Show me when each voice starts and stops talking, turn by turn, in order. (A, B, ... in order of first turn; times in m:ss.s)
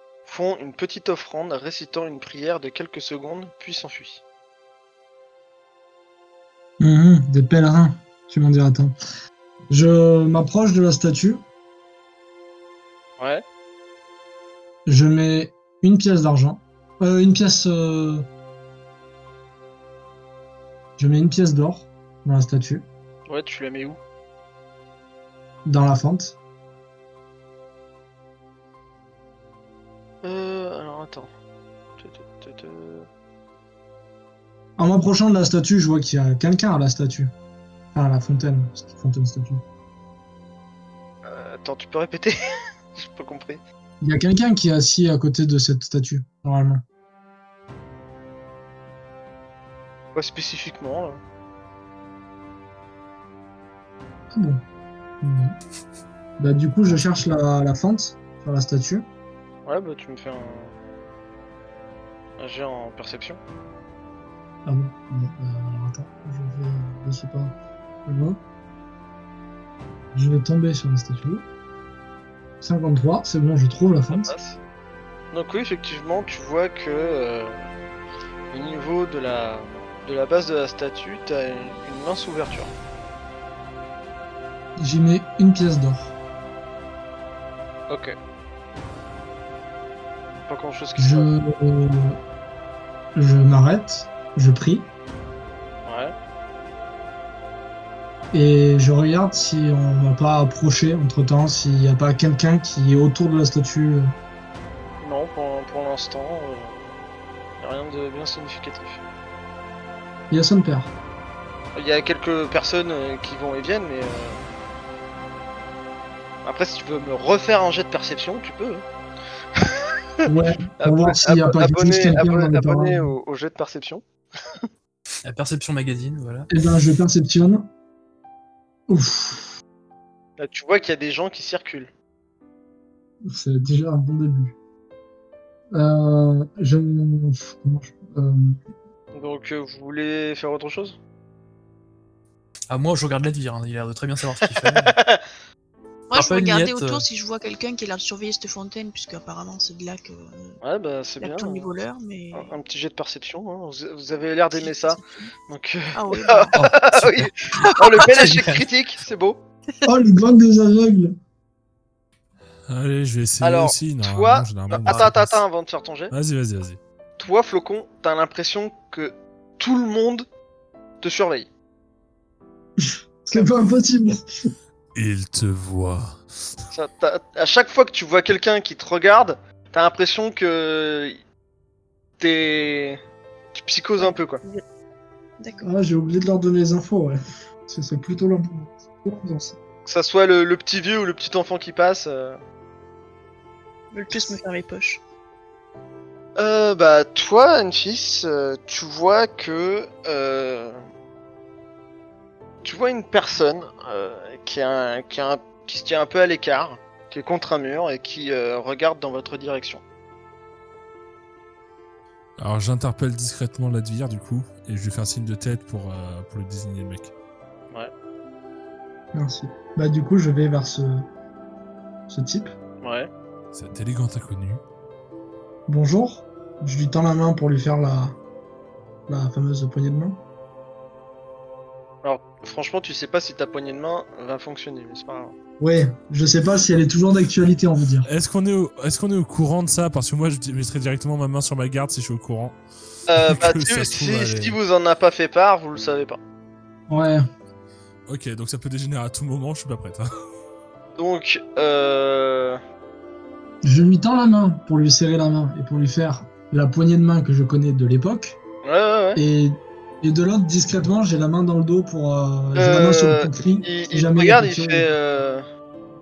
0:00.3-0:04.2 A
0:06.8-0:08.9 B
0:09.7-0:11.4 B
0:13.2-0:13.4 A
0:14.9-0:18.3 B
0:21.0-0:22.9 B
0:23.3-0:24.0 A
0:25.6-0:26.4 B
0:30.2-0:31.3 A
0:32.0-0:33.1 A
0:34.8-0:37.3 B
0:37.9-0:39.6 B
0:41.2-0:42.3 A
0:42.9-0:43.6 A
0:44.0-0:46.8 B
0:50.2-0:51.2 A
0:54.3-0:54.6 B
0:55.2-0:55.6 B
0:56.4-0:59.1 B
0:59.7-1:00.8 A
1:02.4-1:03.4 A
1:04.7-1:07.6 B
1:08.1-1:08.4 B
1:10.1-1:11.4 B
1:12.6-1:14.4 B
1:14.1-1:14.6 A
1:15.3-1:17.7 A
1:18.5-1:22.7 A
1:24.8-1:26.1 B
1:27.9-1:28.2 A
1:30.5-1:31.3 A
1:31.0-1:32.2 B
1:33.2-1:34.9 B
1:35.8-1:36.1 A
1:38.3-1:44.1 B
1:45.0-1:47.0 A
1:47.6-1:49.0 A
1:50.3-1:50.9 B
1:51.8-1:54.4 A
1:56.4-1:58.8 A
1:59.6-2:04.7 A
2:00.3-2:03.1 B
2:05.2-2:06.5 C
2:06.5-2:07.7 B
2:08.9-2:09.5 B
2:10.4-2:11.9 A
2:13.3-2:14.6 B
2:15.7-2:18.6 B
2:19.1-2:21.0 A
2:22.7-2:25.0 C
2:24.8-2:25.2 A
2:26.1-2:30.6 D
2:26.2-2:27.0 C
2:30.6-2:31.7 A
2:31.2-2:32.5 D
2:32.3-2:39.4 A
2:34.5-2:35.3 D
2:35.9-2:36.5 D
2:36.6-2:38.7 C
2:37.6-2:38.2 D
2:39.8-2:41.2 B
2:42.7-2:45.4 E
2:43.4-2:46.1 A
2:46.1-2:46.8 E
2:47.2-2:50.3 A
2:51.0-2:51.5 A
2:52.8-2:54.3 B
2:55.0-2:56.2 E
2:56.7-3:01.2 A
3:02.2-3:03.0 A
3:03.5-3:04.4 A
3:04.0-3:04.6 D
3:05.4-3:05.7 D
3:05.6-3:09.6 B
3:09.9-3:12.4 A
3:13.9-3:15.0 D
3:16.4-3:20.8 A
3:22.6-3:29.8 A
3:32.4-3:37.1 E
3:39.1-3:41.1 B
3:42.1-3:42.5 B
3:42.8-3:43.1 A
3:43.5-3:44.6 E
3:45.7-3:48.2 B
3:49.1-3:50.2 B
3:52.0-3:55.4 A
3:55.6-3:58.1 B
3:58.0-4:02.6 E
4:03.1-4:06.2 A
4:03.2-4:04.6 E
4:06.9-4:07.2 B
4:08.1-4:10.1 E
4:11.0-4:12.6 A
4:13.6-4:18.4 B
4:18.6-4:19.2 A
4:19.2-4:24.9 B
4:22.6-4:25.4 A